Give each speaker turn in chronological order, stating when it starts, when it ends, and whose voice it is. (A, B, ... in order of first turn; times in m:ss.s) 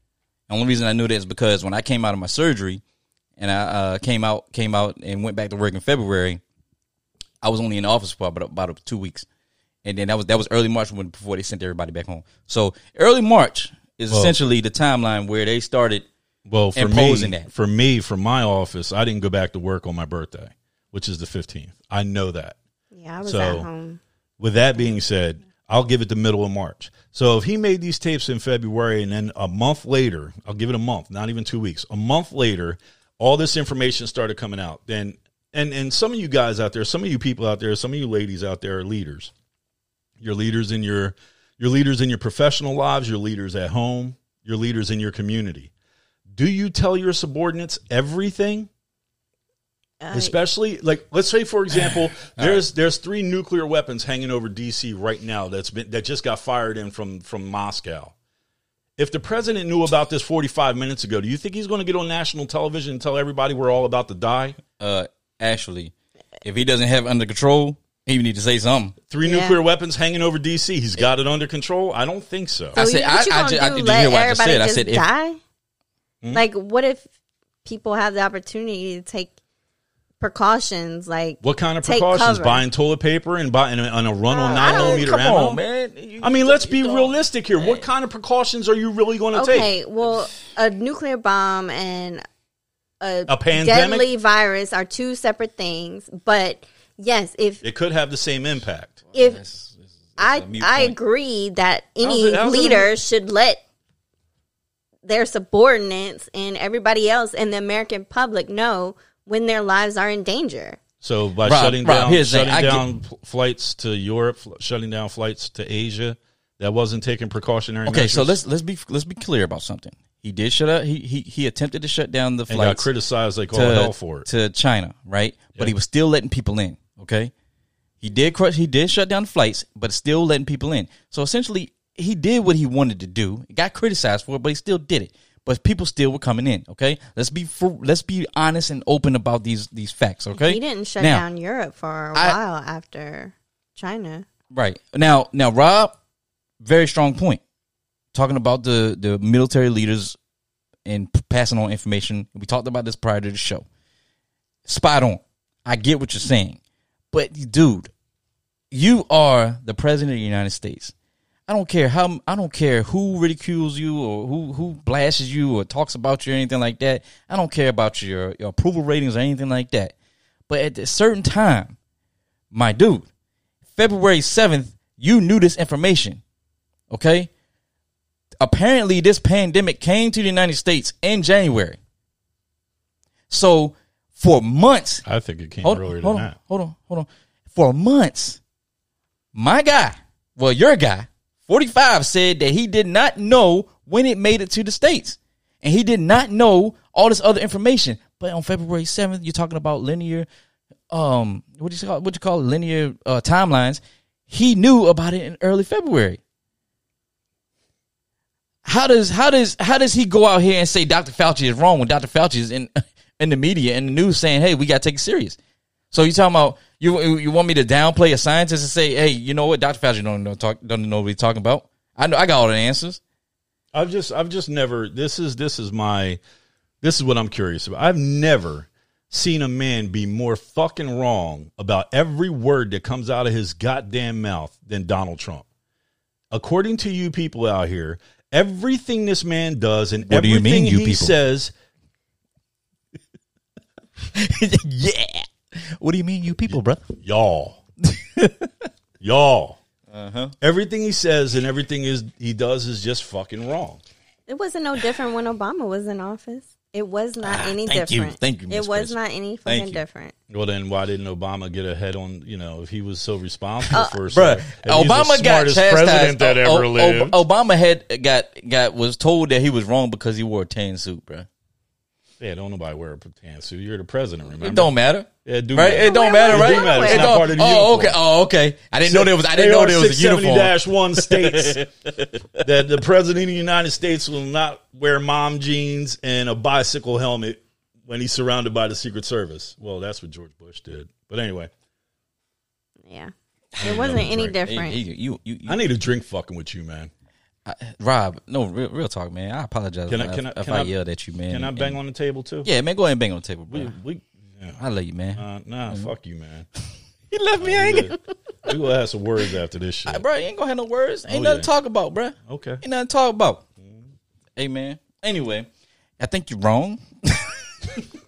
0:00.5-0:02.8 A
0:03.4-0:06.4 A
0:07.4-0:09.2 A
0:09.8-0:16.0 A
0:16.4-0:22.6 B
0:16.7-0:17.5 A
0:22.9-0:24.0 C
0:23.2-0:23.7 B
0:24.4-0:39.3 B
0:40.2-0:45.7 B
0:46.3-0:48.7 B
0:50.0-0:50.3 C
0:50.1-0:58.1 B
0:52.3-0:52.6 A
0:59.0-1:04.6 B
1:04.8-1:09.0 A
1:09.1-1:12.8 B
1:09.2-1:09.6 C
1:12.8-1:15.1 A
1:12.8-1:15.4 C
1:16.3-1:17.1 C
1:17.6-1:19.3 C
1:20.2-1:22.6 C
1:21.4-1:25.6 B
1:24.3-1:25.1 C
1:24.5-1:27.8 A
1:26.2-1:29.7 B
1:29.3-1:32.2 C
1:33.0-1:37.6 C
1:33.3-1:34.1 B
1:37.6-1:39.0 B
1:39.1-1:40.9 A
1:39.1-1:39.4 C
1:40.2-1:43.6 C
1:42.0-1:42.9 B
1:45.0-1:50.8 C
1:51.0-1:58.4 B
1:51.4-1:52.8 A
1:57.8-2:02.9 A
2:02.5-2:04.3 B
2:03.5-2:07.3 A
2:08.0-2:21.2 A
2:20.4-2:24.2 C
2:24.5-2:25.9 A
2:26.6-2:27.4 A
2:28.1-2:30.2 A
2:30.8-2:33.6 A
2:34.6-2:36.6 A
2:37.1-2:37.9 A
2:38.7-2:40.9 A
2:41.5-2:49.9 A
2:50.5-2:51.8 A
2:52.5-2:53.1 A
2:53.7-2:56.2 A
2:56.9-2:57.3 A
2:58.4-3:01.8 A
3:03.3-3:05.0 A
3:05.0-3:06.3 B
3:05.6-3:08.4 A
3:09.3-3:20.3 A
3:20.9-3:26.2 A
3:28.6-3:35.4 A
3:35.9-3:43.0 A
3:43.7-3:46.2 B
3:46.8-3:55.4 B
3:56.3-4:01.5 B
4:00.0-4:01.1 A
4:04.1-4:06.9 A
4:06.5-4:07.6 B
4:07.8-4:08.5 A
4:09.0-4:09.6 B
4:09.9-4:10.3 A
4:10.4-4:13.8 B
4:14.3-4:20.1 C
4:17.2-4:19.8 A
4:20.3-4:27.2 B
4:23.7-4:24.0 C
4:24.1-4:31.3 A
4:32.2-4:34.7 B
4:34.4-4:42.4 A
4:35.2-4:38.0 B
4:35.8-4:37.2 C
4:38.9-4:41.7 B
4:42.4-4:51.5 B
4:52.9-4:54.8 C
4:53.6-4:54.4 B
4:53.7-4:55.6 A
4:55.5-4:56.9 B
4:57.4-5:01.8 A
4:59.9-5:00.7 B
5:01.3-5:02.5 B
5:02.4-5:03.7 A
5:03.5-5:04.6 B
5:04.6-5:05.9 A
5:05.1-5:06.5 B
5:07.1-5:08.6 A
5:07.4-5:10.0 B
5:09.8-5:13.4 A
5:11.1-5:11.5 B
5:12.2-5:12.6 B
5:13.6-5:13.9 B
5:14.4-5:15.5 A
5:16.0-5:17.8 A